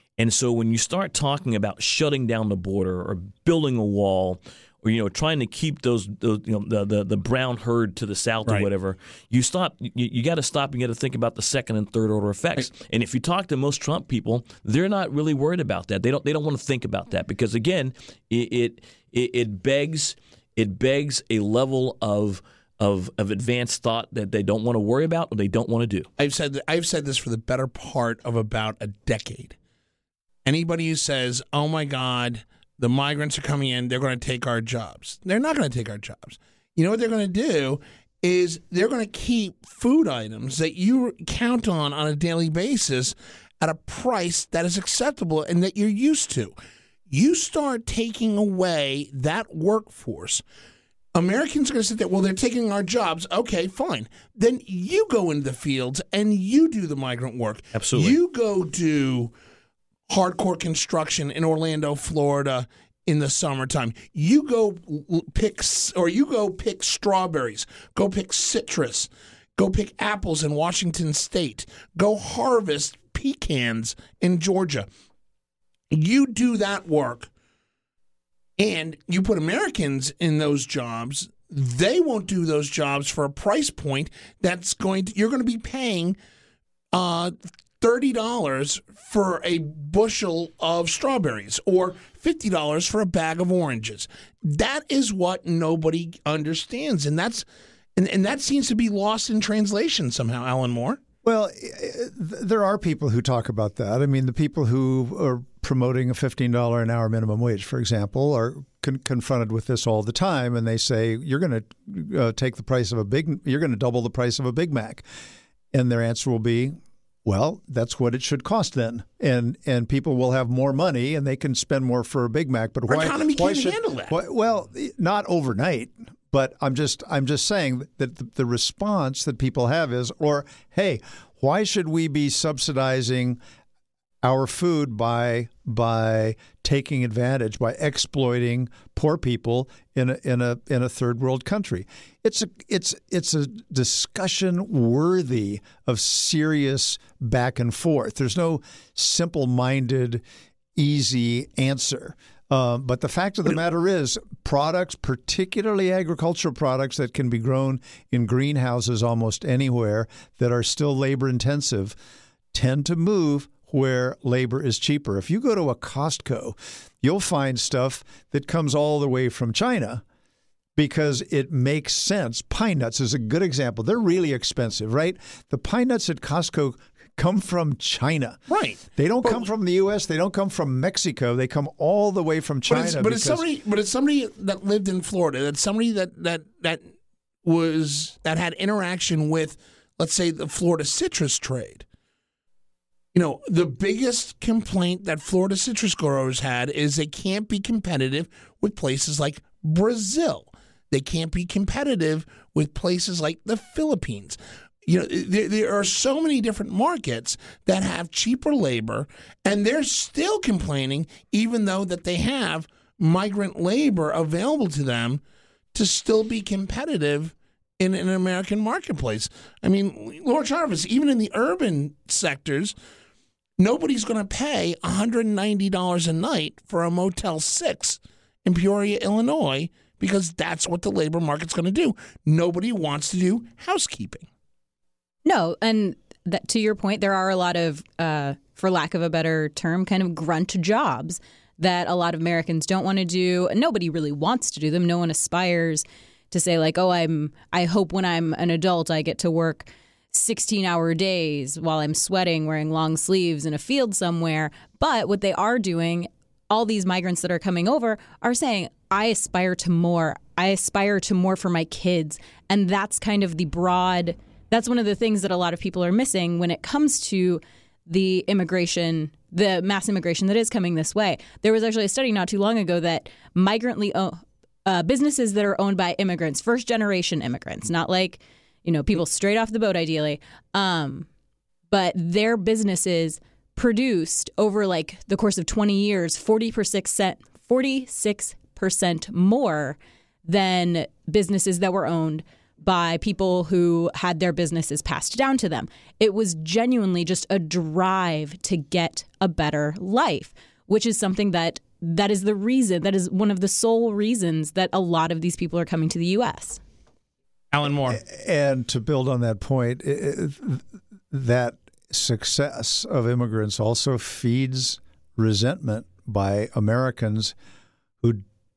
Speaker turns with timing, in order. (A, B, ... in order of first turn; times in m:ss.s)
0:00.2-0:26.1 A
0:26.2-0:29.6 B
0:30.4-0:46.5 B
0:47.1-0:50.4 B
0:51.1-0:59.3 B
0:57.7-0:58.2 A
1:00.1-1:14.9 B
1:15.9-1:17.3 B
1:18.6-1:26.2 B
1:26.9-1:37.4 B
1:38.0-1:41.0 B
1:41.2-1:55.0 C
1:55.7-2:13.4 C
2:02.9-2:04.2 B
2:14.2-2:30.2 C
2:30.7-2:42.0 C
2:42.5-2:50.0 C
2:50.8-2:58.4 C
2:58.5-2:59.5 B
2:58.9-3:03.4 C
3:02.7-3:06.9 B
3:07.4-3:11.8 B
3:13.1-3:35.2 B
3:35.7-3:42.7 B
3:43.6-3:54.3 B
3:55.2-4:41.1 D
4:41.7-5:06.6 D
5:07.5-5:08.0 B
5:07.6-5:17.3 C